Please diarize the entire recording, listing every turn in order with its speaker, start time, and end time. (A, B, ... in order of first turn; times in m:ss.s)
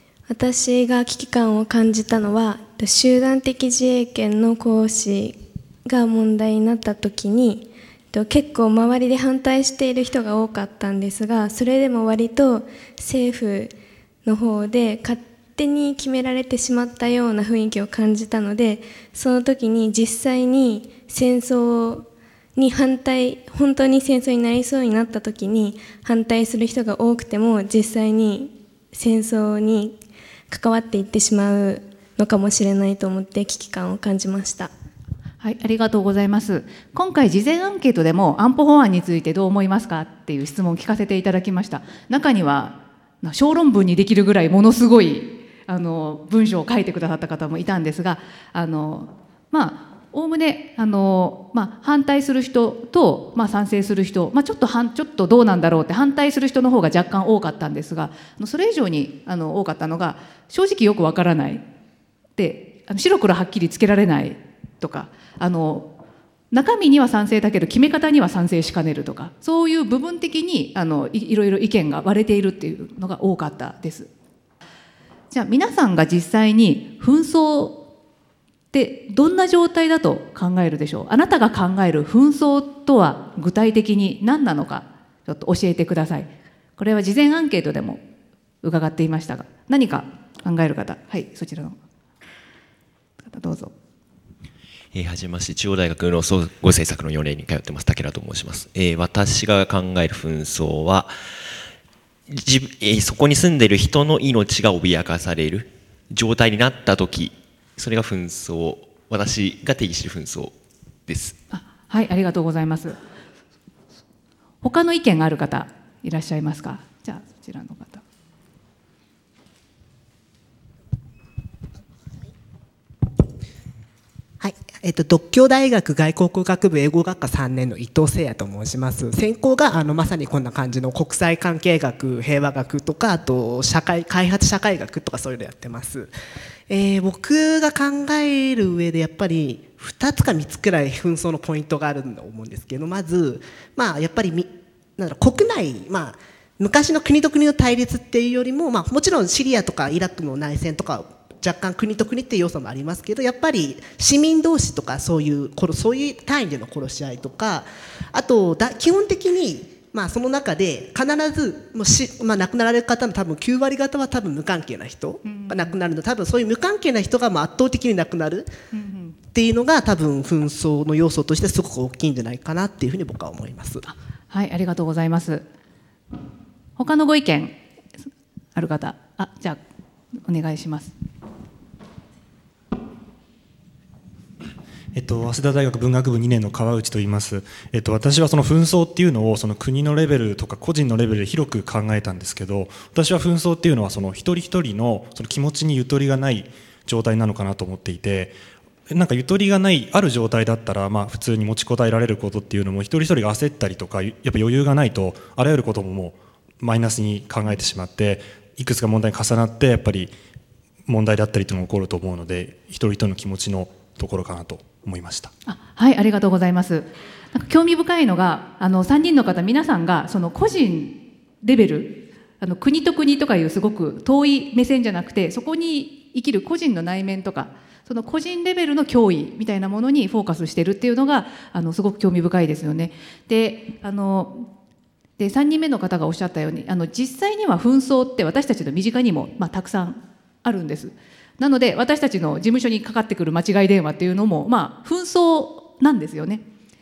0:00.3-0:30.0 A
0:30.5-0:34.7 A
0:35.4-1:01.6 B
1:02.4-1:06.0 B
1:06.5-1:14.1 B
1:15.3-1:17.8 B
1:18.7-1:28.0 B
1:28.6-1:31.8 B
1:33.2-1:33.7 B
1:34.9-1:41.2 C
1:42.3-1:51.4 C
1:51.5-1:53.0 B
1:54.6-1:58.0 B
2:04.4-2:16.1 D
2:16.7-2:48.5 D
2:45.2-2:45.7 B
2:48.7-2:49.2 B
2:49.3-2:53.8 D
2:53.8-2:55.5 B
2:56.8-2:57.6 B
2:58.5-2:59.6 B
3:00.2-3:00.9 B
3:04.9-3:18.4 E
3:18.9-3:30.1 E
3:30.8-3:35.3 E
3:35.5-3:54.5 B
3:55.2-4:06.4 B